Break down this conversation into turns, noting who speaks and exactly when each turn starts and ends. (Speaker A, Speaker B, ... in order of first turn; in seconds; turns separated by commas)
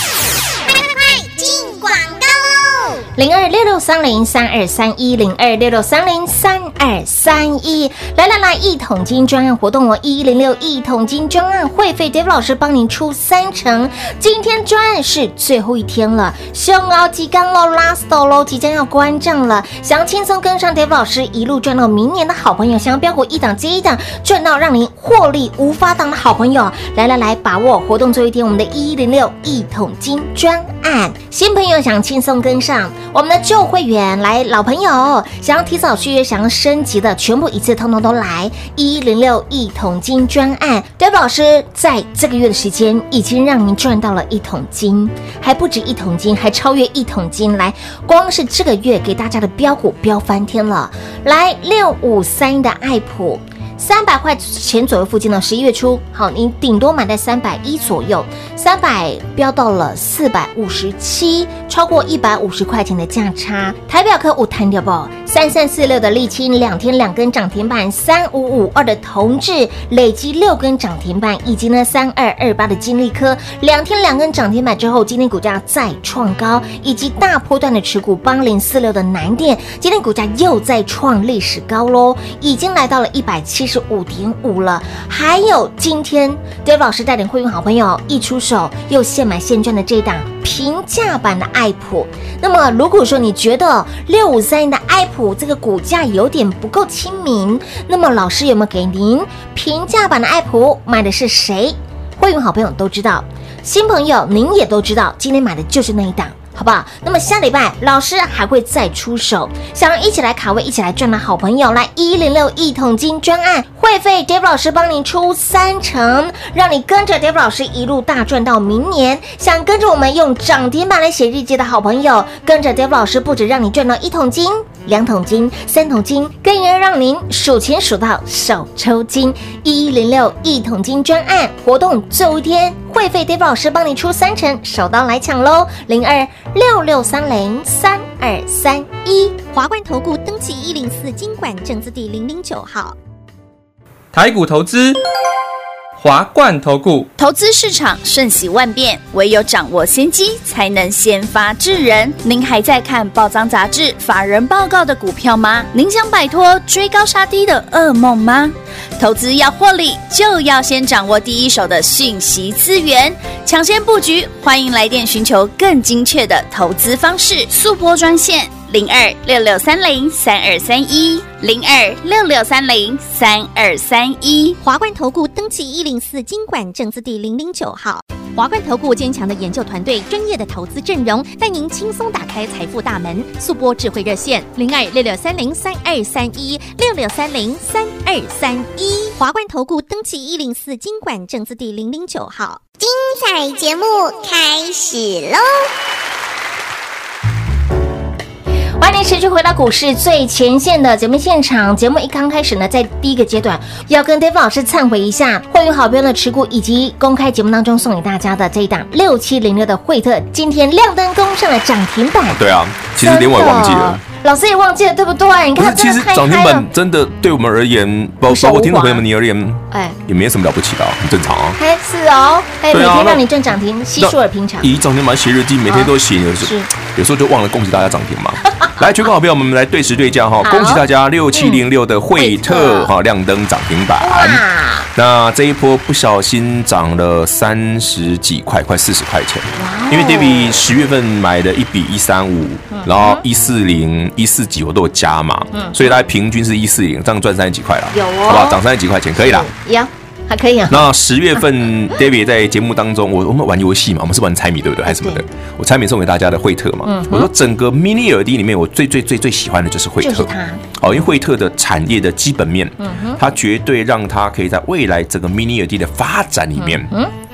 Speaker A: 0.7-3.0, Speaker B: 3.1-139.4, Speaker C: 139.5-142.9, Speaker D: 144.1-145.0, Speaker D: 146.0-147.1, Speaker E: 147.2-174.6, Speaker C: 174.6-192.6, Speaker A: 192.8-195.7, Speaker B: 198.8-212.4, Speaker F: 212.3-214.0, Speaker B: 213.0-216.7, Speaker F: 215.6-221.6, Speaker B: 218.3-219.0, Speaker B: 219.7-220.0, Speaker B: 221.6-224.7, Speaker F: 222.7-223.2, Speaker F: 224.0-234.4, Speaker B: 225.7-226.7, Speaker B: 230.4-230.8, Speaker B: 231.3-231.6, Speaker B: 232.2-232.9, Speaker B: 234.0-234.9, Speaker F: 234.9-249.5, Speaker B: 239.6-240.6, Speaker B: 242.7-243.2, Speaker B: 245.5-245.8, Speaker B: 247.9-248.6, Speaker B: 249.2-250.9, Speaker F: 250.7-266.9, Speaker B: 254.8-255.2, Speaker B: 256.8-257.3, Speaker B: 260.0-260.7, Speaker B: 262.8-263.2, Speaker B: 266.6-267.1